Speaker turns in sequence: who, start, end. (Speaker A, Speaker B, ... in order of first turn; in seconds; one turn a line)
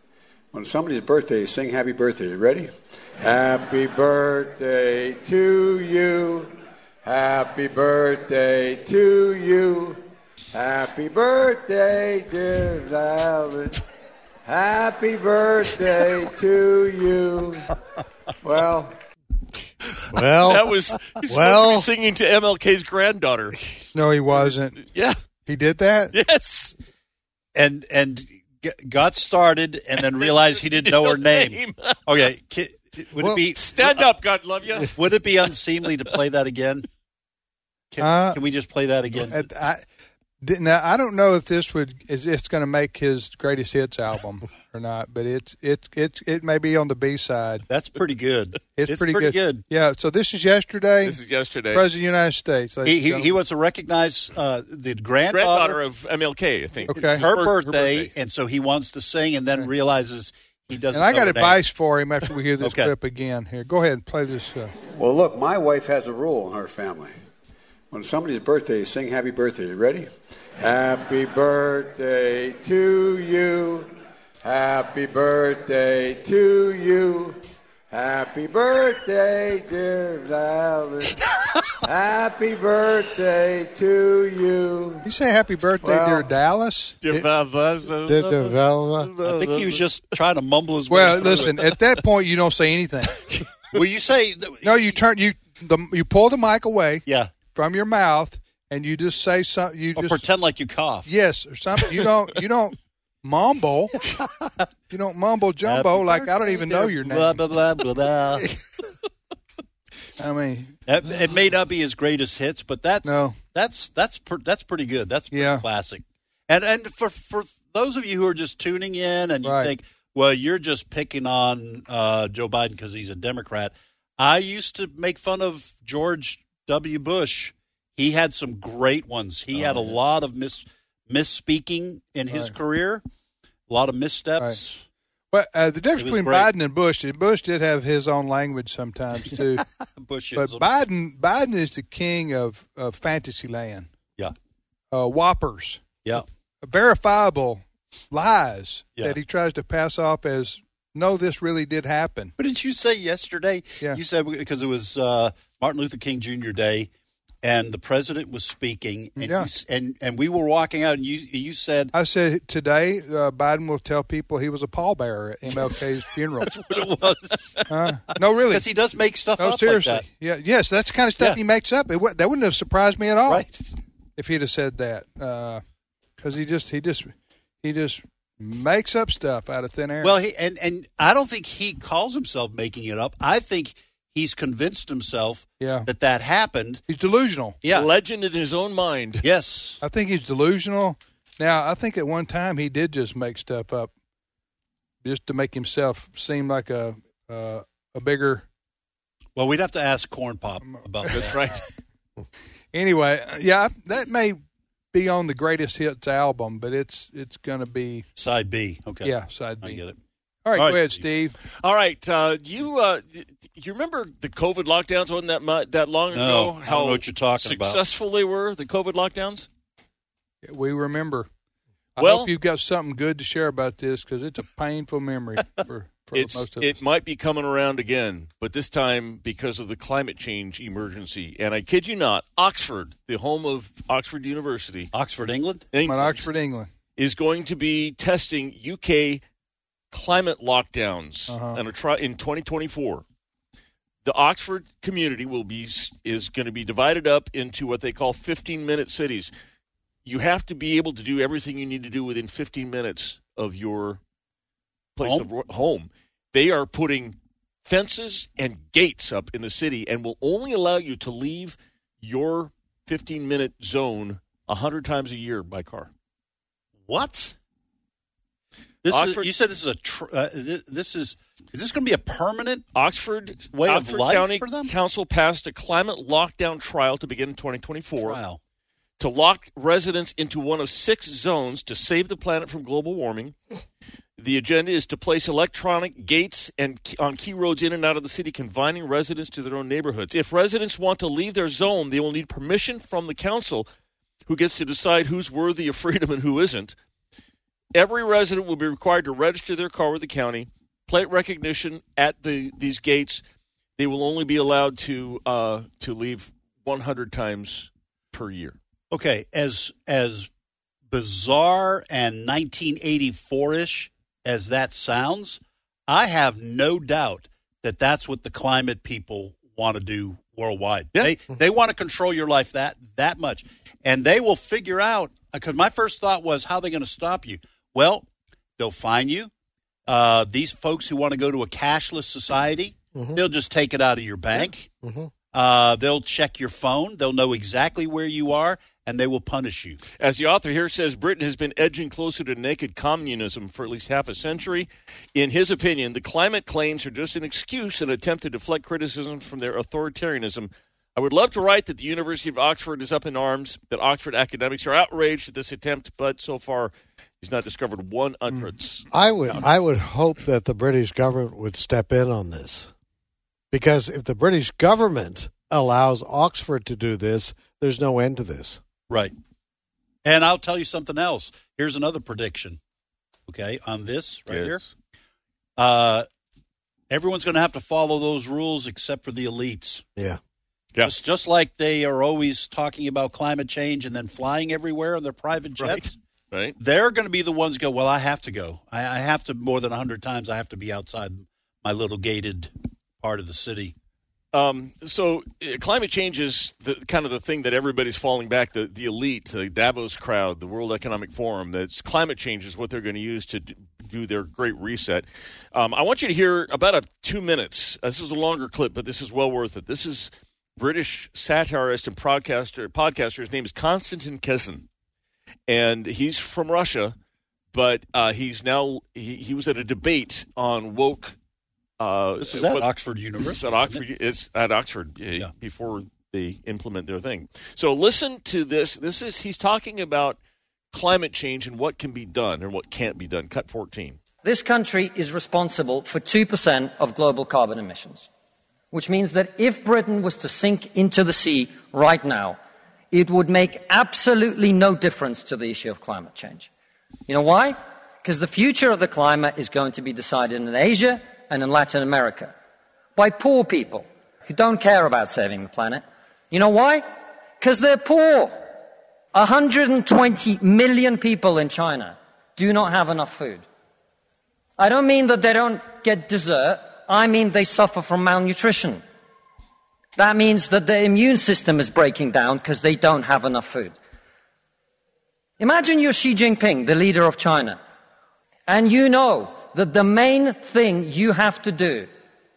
Speaker A: 0.5-13.8
Speaker A: 14.4-17.7
Speaker A: 18.4-19.0
Speaker B: 20.1-21.9
Speaker C: 20.4-23.7
Speaker D: 23.9-24.8
Speaker C: 24.8-25.2
Speaker D: 25.5-26.1
Speaker C: 26.1-26.8
Speaker E: 27.6-34.1
Speaker C: 30.0-32.0
Speaker C: 33.5-35.5
Speaker E: 34.8-36.9
Speaker E: 37.9-39.4
Speaker D: 38.0-38.4
Speaker D: 39.2-39.8
Speaker D: 40.4-47.7
Speaker E: 47.7-49.6
Speaker D: 48.8-51.2
Speaker C: 51.0-51.9
Speaker D: 51.7-53.4
Speaker E: 52.9-55.8
Speaker C: 55.3-58.1
Speaker D: 56.9-57.3
Speaker E: 56.9-61.6
Speaker D: 60.9-64.7
Speaker E: 62.6-62.9
Speaker A: 65.0-67.1
Speaker A: 67.9-73.9
Speaker A: 74.4-77.4
Speaker A: 77.9-81.2
Speaker A: 81.8-85.1
Speaker D: 85.0-87.0
Speaker A: 85.8-86.3
Speaker C: 87.0-89.9
Speaker B: 88.0-89.1
Speaker E: 89.2-91.6
Speaker D: 90.9-93.3
Speaker E: 93.7-94.9
Speaker D: 94.6-100.2
Speaker E: 97.1-97.3
Speaker E: 100.0-101.1
Speaker D: 101.1-104.0
Speaker D: 104.9-107.4
Speaker E: 105.7-108.5
Speaker D: 110.2-110.8
Speaker E: 110.9-133.0
Speaker D: 113.0-113.4
Speaker D: 115.3-115.6
Speaker D: 119.4-119.7
Speaker C: 129.5-130.0
Speaker E: 133.7-134.8
Speaker D: 135.3-139.6
Speaker E: 136.0-136.5
Speaker E: 140.0-140.7
Speaker D: 140.3-143.9
Speaker D: 144.9-145.9
Speaker D: 146.6-152.3
Speaker E: 152.4-156.9
Speaker E: 157.4-161.9
Speaker D: 159.2-159.5
Speaker D: 161.9-166.5
Speaker E: 166.5-167.7
Speaker D: 167.7-168.7
Speaker E: 168.5-170.0
Speaker D: 169.4-173.5
Speaker E: 173.3-173.7
Speaker D: 174.2-175.6
Speaker D: 176.2-180.2
Speaker E: 180.0-186.8
Speaker D: 185.6-185.9
Speaker D: 186.9-187.6
Speaker E: 187.6-187.9
Speaker C: 187.7-189.2
Speaker E: 189.2-189.8
Speaker D: 189.8-193.9
Speaker D: 195.0-198.5
Speaker E: 199.4-201.4
Speaker D: 200.7-201.4
Speaker C: 201.1-201.6
Speaker D: 202.7-204.4
Speaker D: 204.9-208.1
Speaker E: 208.2-210.0
Speaker D: 209.0-209.8
Speaker D: 210.4-211.4
Speaker E: 210.6-211.0
Speaker C: 211.6-219.5
Speaker E: 216.1-217.8
Speaker D: 220.4-221.3
Speaker D: 222.0-226.8
Speaker C: 222.0-222.3
Speaker C: 226.1-234.9
Speaker E: 234.9-235.7
Speaker C: 235.7-236.3
Speaker D: 235.8-236.7
Speaker C: 237.0-239.2
Speaker C: 239.9-243.0
Speaker D: 241.3-241.6
Speaker C: 244.0-249.3
Speaker C: 250.1-254.0
Speaker C: 255.0-265.9
Speaker E: 255.0-255.3
Speaker E: 266.9-267.4
Speaker E: 268.8-272.6
Speaker C: 268.9-269.3
Speaker C: 272.8-278.2
Speaker E: 273.5-274.7
Speaker E: 278.0-278.4
Speaker C: 279.0-283.3
Speaker C: 284.2-293.7
Speaker C: 294.3-296.8
Speaker C: 297.8-303.2
Speaker C: 303.8-308.6
Speaker E: 308.9-310.3
Speaker E: 310.9-328.1
Speaker E: 328.6-329.3
Speaker E: 329.9-334.7
Speaker B: 332.9-333.2
Speaker B: 334.4-335.1
Speaker E: 335.3-339.8
Speaker C: 340.0-359.4
Speaker B: 358.9-362.7
Speaker B: 363.5-368.6
Speaker E: 370.0-372.6
Speaker E: 373.3-374.6
Speaker C: 374.3-374.7
Speaker E: 375.6-376.1
Speaker E: 376.9-379.8
Speaker E: 380.8-385.9
Speaker C: 385.6-386.6
Speaker E: 386.6-393.7
Speaker C: 394.3-414.6
Speaker C: 415.5-416.9
Speaker C: 417.5-421.2
Speaker C: 421.8-422.7
Speaker E: 422.2-423.8
Speaker C: 423.2-430.2
Speaker C: 430.7-434.0
Speaker F: 434.2-438.1
Speaker F: 438.7-442.4
Speaker F: 442.9-446.5
Speaker F: 447.1-452.3
Speaker F: 453.0-456.9
Speaker F: 457.4-458.4
Speaker F: 459.1-463.4
Speaker F: 464.6-468.8
Speaker F: 470.0-473.8
Speaker F: 475.4-477.6
Speaker F: 478.5-481.9